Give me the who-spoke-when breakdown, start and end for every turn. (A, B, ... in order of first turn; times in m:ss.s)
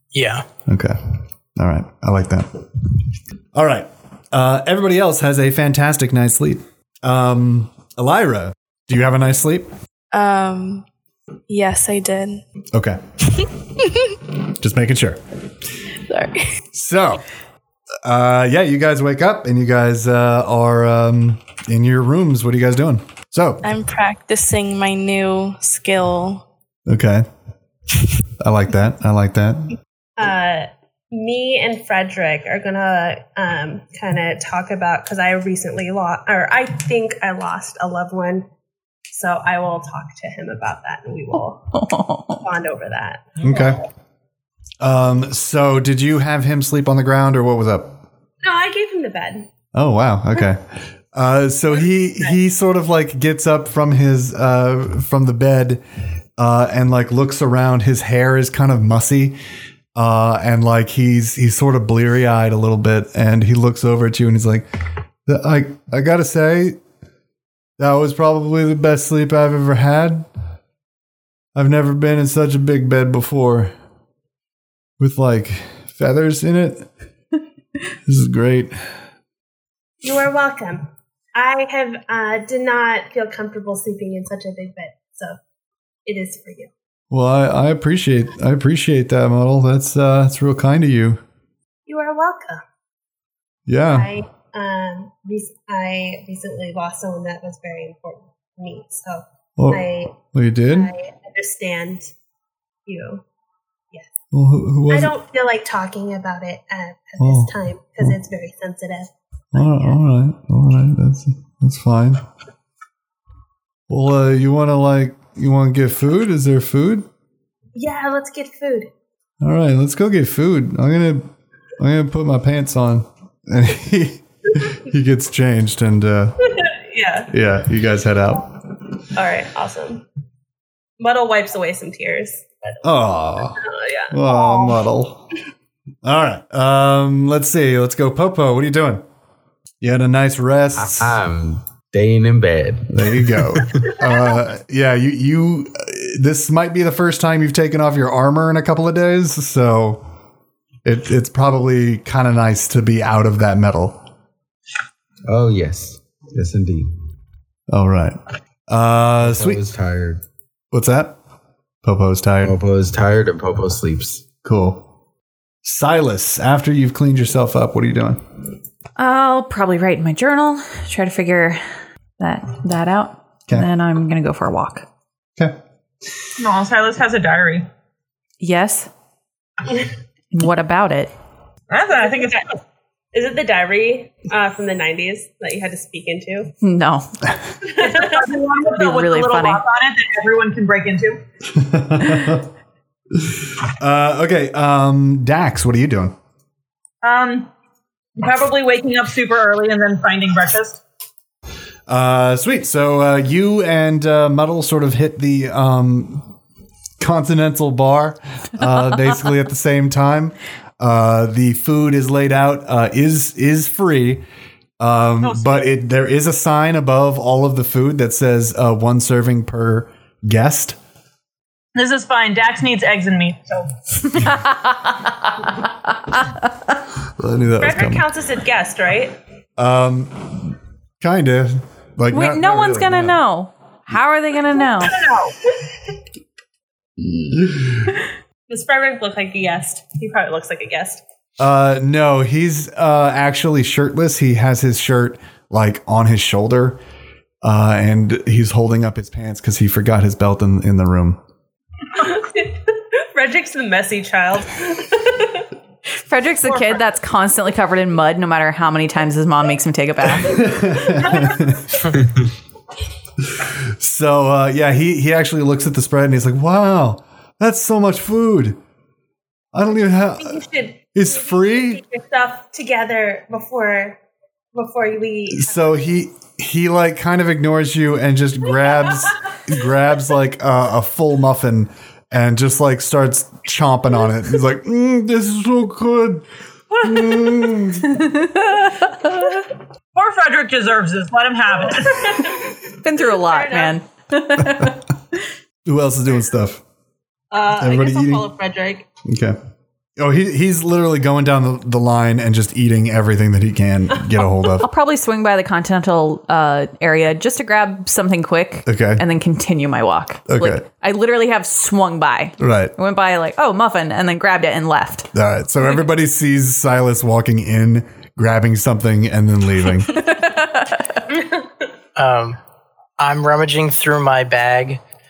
0:00.1-0:00.5 A
0:00.7-0:02.9 B
0:03.5-0:09.7 B
0:10.1-0:10.9 C
0:11.5-0:12.4 C
0:12.7-0:13.0 B
0:14.4-0:15.2 B
0:16.1-0:16.5 C
0:16.7-0:17.3 B
0:18.0-0:23.6 B
0:23.6-0:26.4 C
0:26.9-0:27.3 B
0:28.4-0:29.8 B
0:30.2-0:38.5 D
0:39.1-0:43.6 D
0:41.7-0:42.4 E
0:43.4-0:43.8 B
0:44.8-0:48.0 B
0:48.4-0:49.5 D
0:49.7-0:55.8 B
0:56.4-0:59.4 B
1:00.0-1:04.7 B
1:05.3-1:06.8 B
1:07.8-1:10.3 B
1:11.6-1:13.7 B
1:15.0-1:16.9 B
1:18.1-1:18.8 B
1:20.0-1:25.4 D
1:26.1-1:26.7 D
1:27.1-1:31.2 B
1:31.9-1:32.6 D
1:33.7-1:34.1 B
1:33.9-1:40.2 D
1:39.6-1:40.9 B
1:40.7-1:42.1 D
1:42.9-1:43.2 D
1:44.3-1:45.2 B
1:44.9-1:50.0 D
1:47.2-1:48.2 B
1:49.5-1:52.2 B
1:53.9-1:57.1 B
1:57.8-1:58.9 D
1:59.4-2:06.5 B
2:06.6-2:07.3 D
2:07.3-2:08.5 B
2:09.2-2:10.1 D
2:11.0-2:14.8 D
2:12.8-2:15.3 B
2:16.0-2:19.0 B
2:19.8-2:21.2 B
2:20.8-2:24.0 F
2:22.9-2:30.0 B
2:30.8-2:34.0 B
2:35.3-2:36.9 F
2:37.7-2:38.2 B
2:38.7-2:39.6 B
2:39.2-2:40.2 F
2:40.7-2:41.2 B
2:41.8-2:42.6 B
2:42.4-2:44.3 F
2:44.4-2:44.9 B
2:45.6-2:48.2 B
2:49.0-2:51.6 E
2:52.2-2:54.9 E
2:56.4-2:57.7 G
2:58.4-2:58.9 E
3:00.3-3:01.1 E
3:01.7-3:02.6 G
3:02.0-3:02.4 D
3:03.1-3:06.5 D
3:06.6-3:07.1 E
3:07.6-3:08.3 D
3:07.7-3:11.2 G
3:08.7-3:09.6 E
3:11.5-3:12.5 B
3:13.1-3:16.2 B
3:17.0-3:17.5 G
3:18.2-3:20.8 G
3:21.9-3:26.3 B
3:27.0-3:34.2 B
3:34.8-3:40.8 B
3:35.2-3:35.6 G
3:41.8-3:43.7 G
3:44.1-3:46.4 E
3:47.2-3:48.1 B
3:47.6-3:49.2 D
3:49.6-3:53.2 B
3:52.1-3:55.0 E
3:54.8-3:55.4 G
3:57.0-3:58.0 B
3:58.5-4:01.0 D
4:01.4-4:06.8 B
4:07.4-4:11.2 B
4:12.0-4:15.5 D
4:16.0-4:20.5 E
4:16.5-4:16.8 G
4:20.2-4:21.8 B
4:21.0-4:21.5 D
4:23.3-4:28.6 B
4:29.5-4:30.4 B
4:30.2-4:34.0 D
4:31.0-4:31.8 B
4:34.5-4:35.8 D
4:35.3-4:46.3 B
4:46.8-4:47.5 G
4:46.8-4:48.1 B
4:47.8-4:49.4 E
4:49.9-4:52.3 G
4:51.8-4:52.4 D
4:52.8-4:54.8 E
4:53.2-4:53.8 D
4:54.4-4:54.7 B
4:55.7-4:56.6 B
4:57.3-4:58.9 D
4:57.6-4:58.3 B
4:59.0-4:59.4 B
5:00.0-5:04.7 B
5:04.6-5:15.1 E
5:08.7-5:09.0 B
5:10.3-5:10.6 B
5:12.4-5:12.7 B
5:15.1-5:20.0 B
5:19.9-5:21.1 E
5:22.0-5:22.4 A
5:23.0-5:24.8 A